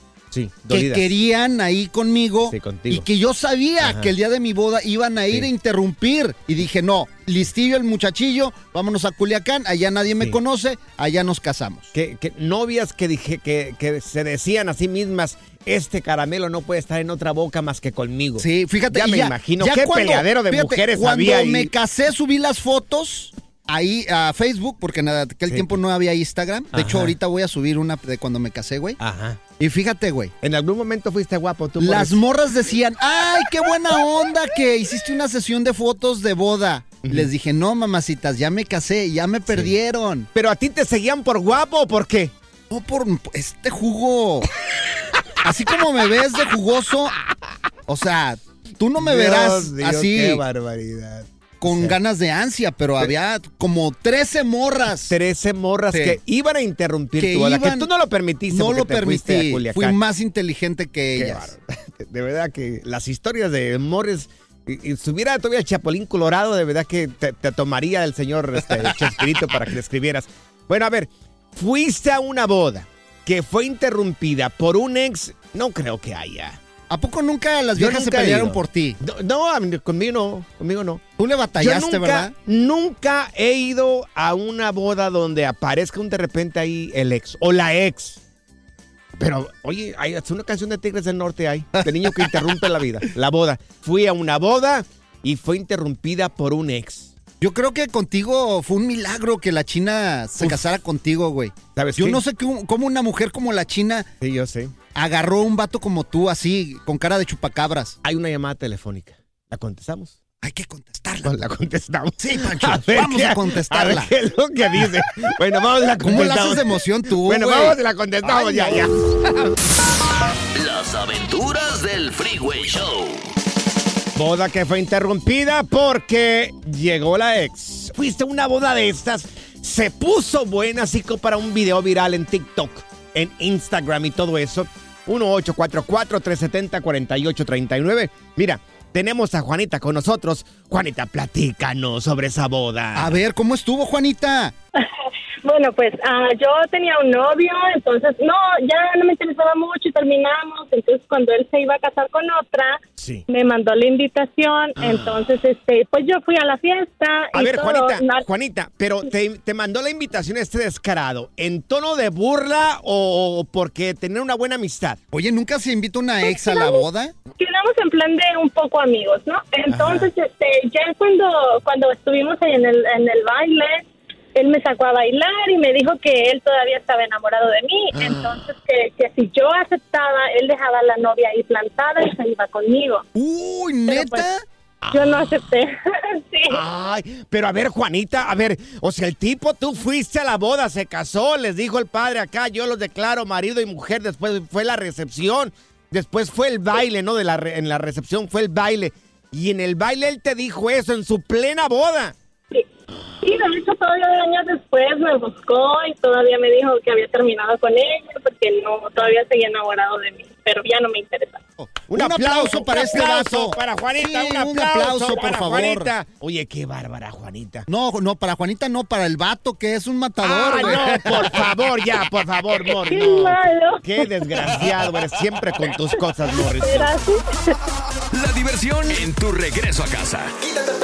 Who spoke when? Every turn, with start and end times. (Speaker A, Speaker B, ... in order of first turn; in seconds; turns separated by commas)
Speaker A: 0.3-1.1, Speaker B: 0.7-11.9, Speaker A: 2.5-3.1, Speaker A: 3.8-4.1, Speaker A: 11.9-21.7, Speaker B: 18.4-29.0, Speaker A: 26.7-27.1, Speaker A: 29.0-29.4, Speaker B: 29.6-30.3, Speaker A: 30.4-32.2, Speaker B: 31.8-40.3, Speaker A: 37.0-37.3, Speaker A: 40.4-42.3, Speaker B: 42.7-44.5, Speaker B: 45.4-47.1, Speaker B: 47.9-50.4, Speaker A: 49.0-52.0, Speaker B: 51.6-55.1, Speaker A: 55.1-60.0, Speaker B: 55.9-56.2, Speaker B: 57.2-57.9, Speaker B: 58.5-61.5, Speaker A: 61.1-76.6, Speaker B: 76.9-79.0, Speaker A: 77.8-81.0, Speaker B: 81.2-82.3, Speaker A: 81.6-88.2, Speaker A: 89.2-97.1, Speaker B: 97.4-104.1, Speaker A: 101.8-102.2, Speaker A: 104.2-104.7, Speaker B: 105.0-108.0, Speaker A: 108.0-110.2, Speaker B: 110.4-111.4, Speaker A: 111.2-119.0, Speaker B: 112.2-114.1, Speaker B: 116.0-119.3, Speaker C: 120.6-123.3, Speaker A: 124.2-143.2, Speaker B: 142.9-144.5, Speaker D: 145.4-158.3, Speaker A: 153.0-153.2, Speaker B: 154.8-155.2, Speaker A: 157.3-165.0, Speaker B: 165.1-167.1, Speaker D: 166.2-166.8, Speaker D: 167.4-183.1, Speaker A: 169.7-170.1, Speaker B: 183.2-184.4, Speaker D: 183.9-184.3, Speaker D: 184.9-186.6, Speaker A: 186.5-202.2, Speaker D: 203.2-211.4, Speaker B: 211.6-215.9, Speaker A: 211.9-217.7, Speaker B: 217.7-221.4, Speaker A: 220.2-226.9, Speaker D: 222.8-224.5, Speaker D: 226.4-227.6, Speaker E: 228.1-230.3